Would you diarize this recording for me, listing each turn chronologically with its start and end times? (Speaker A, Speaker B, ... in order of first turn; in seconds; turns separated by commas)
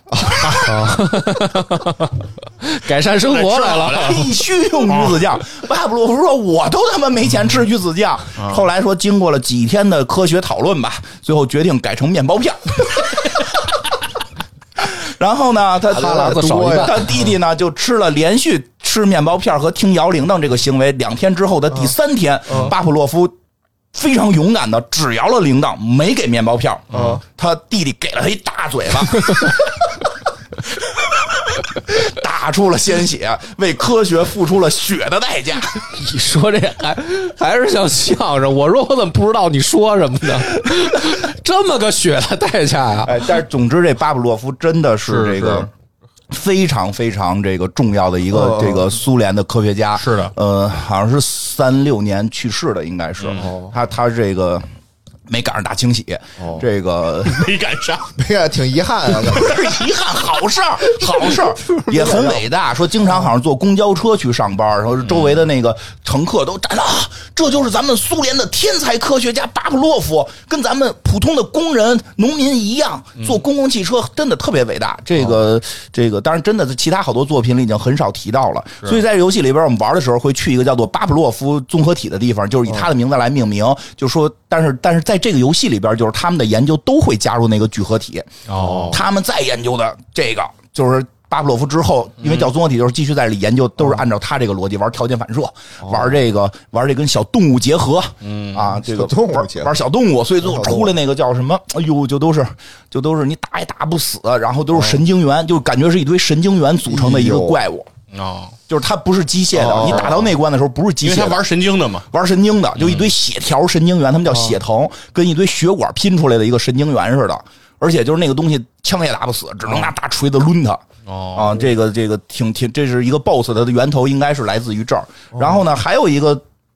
Speaker A: 0.1-0.6, Speaker B: 0.4-0.7, Speaker C: 0.6-4.3, Speaker B: 3.3-4.3, Speaker D: 3.8-13.7, Speaker B: 4.9-5.2, Speaker B: 8.4-8.7, Speaker D: 14.8-23.3, Speaker C: 15.9-17.1, Speaker A: 15.9-17.1, Speaker A: 22.5-22.7, Speaker D: 23.9-29.9, Speaker B: 26.9-27.2, Speaker A: 26.9-27.2, Speaker D: 30.8-35.8, Speaker C: 35.9-43.2, Speaker D: 43.0-45.7, Speaker B: 45.1-45.7, Speaker D: 46.3-54.7, Speaker A: 48.3-48.9, Speaker B: 50.0-50.3, Speaker B: 53.2-53.5, Speaker A: 53.4-53.7, Speaker D: 55.3-57.5, Speaker A: 56.4-56.7, Speaker B: 57.2-58.1, Speaker A: 58.2-59.6, Speaker B: 59.2-59.8, Speaker D: 59.3-88.3, Speaker A: 61.0-62.5, Speaker B: 65.0-65.4, Speaker B: 88.5-89.0, Speaker A: 88.6-89.0, Speaker D: 88.9-107.9, Speaker B: 92.2-92.5, Speaker A: 95.8-96.1, Speaker B: 98.2-98.7, Speaker A: 98.8-99.7, Speaker A: 100.4-100.9, Speaker A: 104.8-105.0, Speaker A: 106.9-107.6, Speaker B: 108.1-108.5, Speaker D: 108.7-111.4, Speaker A: 109.5-110.3, Speaker B: 109.7-110.2, Speaker B: 111.0-112.1, Speaker D: 112.1-120.8, Speaker B: 112.8-113.1, Speaker B: 121.1-121.6, Speaker D: 121.3-126.4, Speaker A: 125.3-125.6